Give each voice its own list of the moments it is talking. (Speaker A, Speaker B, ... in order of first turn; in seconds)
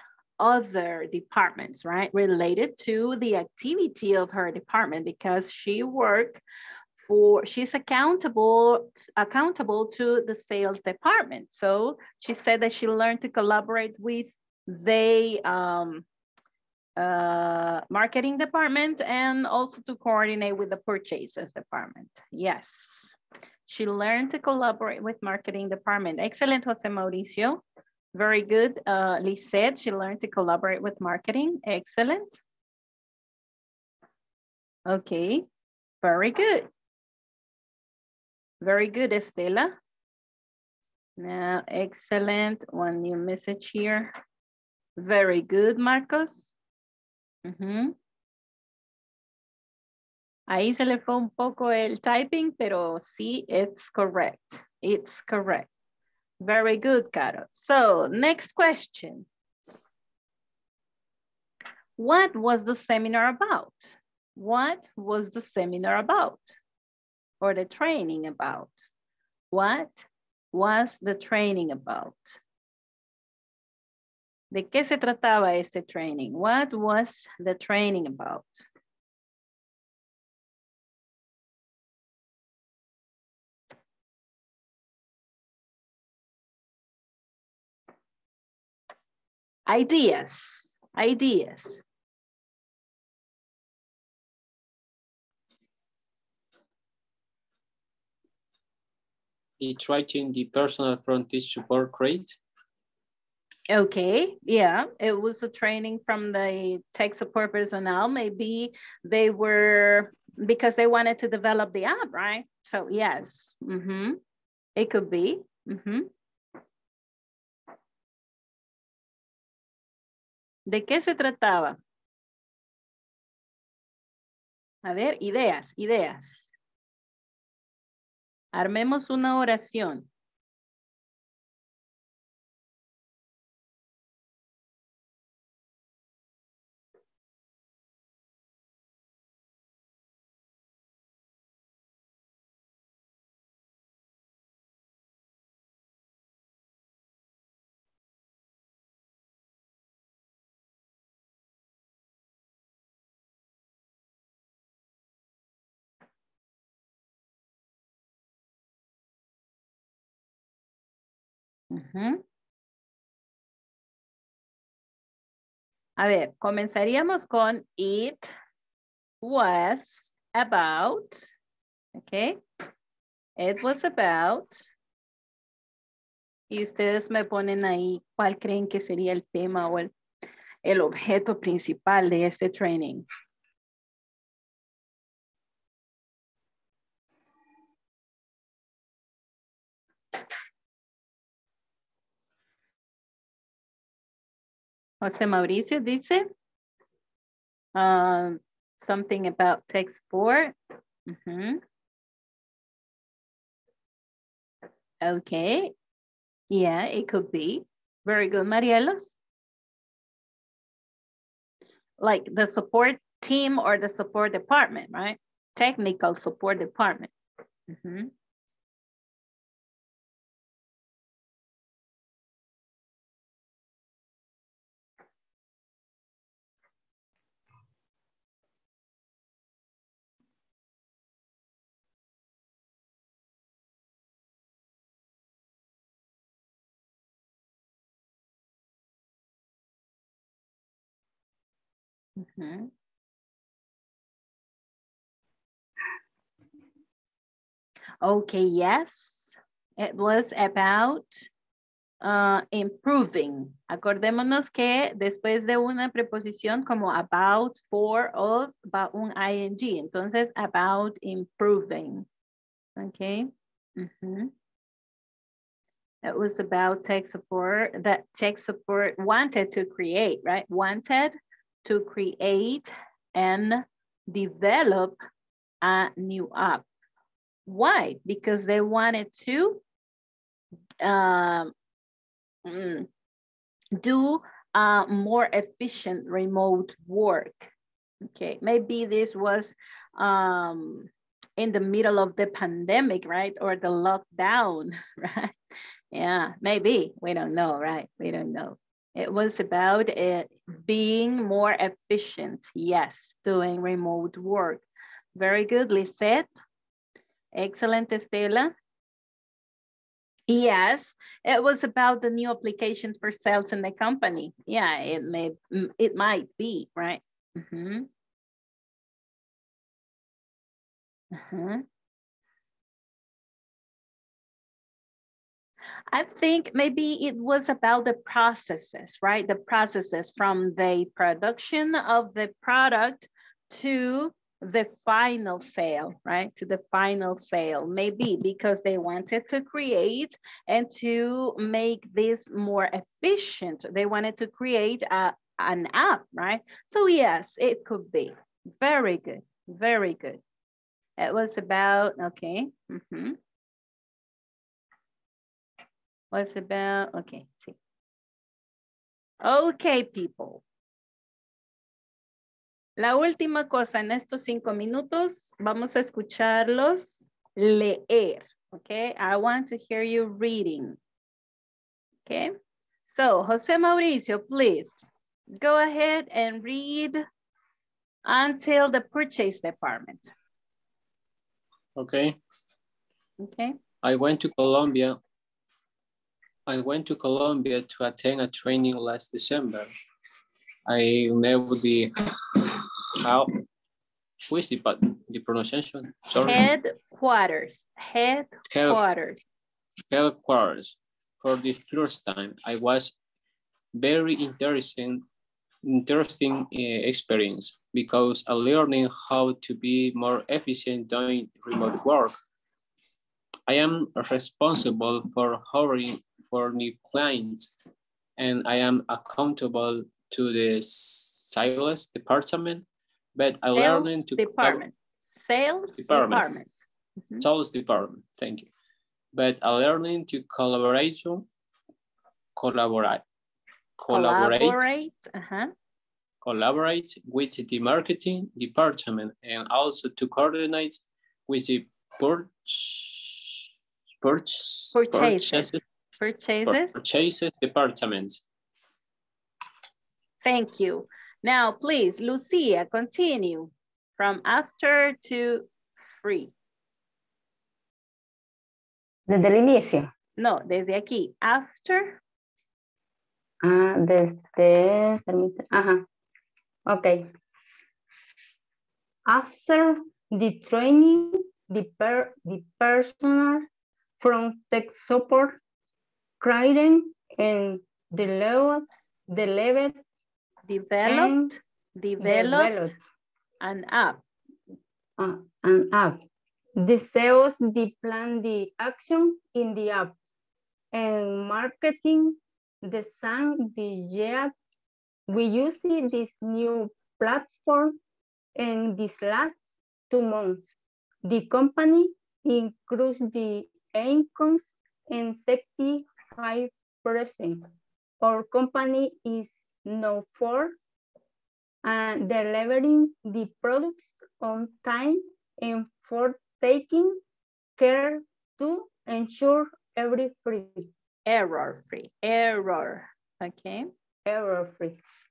Speaker A: 0.4-6.4, 7.1-16.0, 17.0-23.1, 23.7-27.6, 28.1-32.4, 34.9-35.5, 36.0-36.7, 38.6-39.7, 41.2-44.1, 45.0-46.5, 47.4-47.9, 50.5-55.7, 56.4-59.2, 62.0-66.5, 67.4-68.9, 69.5-72.4, 74.5-78.7, 89.7-91.8, 103.7-114.2, 114.8-116.1, 120.7-121.8, 124.8-126.5, 128.5-130.1, 161.7-162.2, 166.0-168.3, 169.2-171.3, 171.9-172.4, 173.4-174.6, 176.5-179.9, 180.6-183.0, 195.0-196.2, 197.8-200.5, 201.1-201.6, 205.0-205.7, 206.5-209.1, 212.0-217.1, 217.7-218.1, 242.2-242.7, 248.0-251.2, 252.0-262.1, 262.8-264.3, 266.0-275.0, 275.6-276.6, 277.5-279.6, 280.8-281.5, 282.4-282.9, 283.8-287.5, 288.0-295.3, 295.9-304.6, 305.1-306.3, 307.4-308.5, 310.3-317.9, 321.1-321.6, 325.9-350.2, 351.0-353.2, 356.1-357.6, 359.2-360.4, 362.8-370.8, 372.1-372.3, 372.9-377.0, 378.1-380.1, 383.2-383.6, 396.2-399.2, 423.5-424.7, 425.2-426.5, 433.9-435.5, 444.7-446.7, 450.2-455.5, 456.0-456.3, 460.2-462.0, 480.5-482.7, 483.4-484.0, 521.1-523.7
Speaker B: 99.6-102.3, 381.8-382.2, 383.8-385.0, 386.4-389.7, 390.7-393.3, 394.3-396.5, 398.5-398.8, 399.9-402.9, 403.8-405.0, 405.6-412.1, 413.5-417.5, 418.2-422.6, 423.1-424.6, 425.8-426.3, 427.2-428.5, 429.1-431.3, 432.4-433.0, 433.8-434.7, 436.2-443.2, 444.0-445.6, 446.4-448.2
Speaker C: 459.1-459.9, 463.4-465.8, 466.7-467.1, 469.1-473.4, 474.0-475.4, 476.2-479.8, 480.8-481.4, 482.0-482.8, 485.0-486.0, 486.6-489.9, 490.7-494.3, 495.1-497.8, 498.4-499.4, 499.9-500.5, 501.0-507.5, 508.0-510.5, 511.6-517.0, 517.6-520.7, 524.1-524.8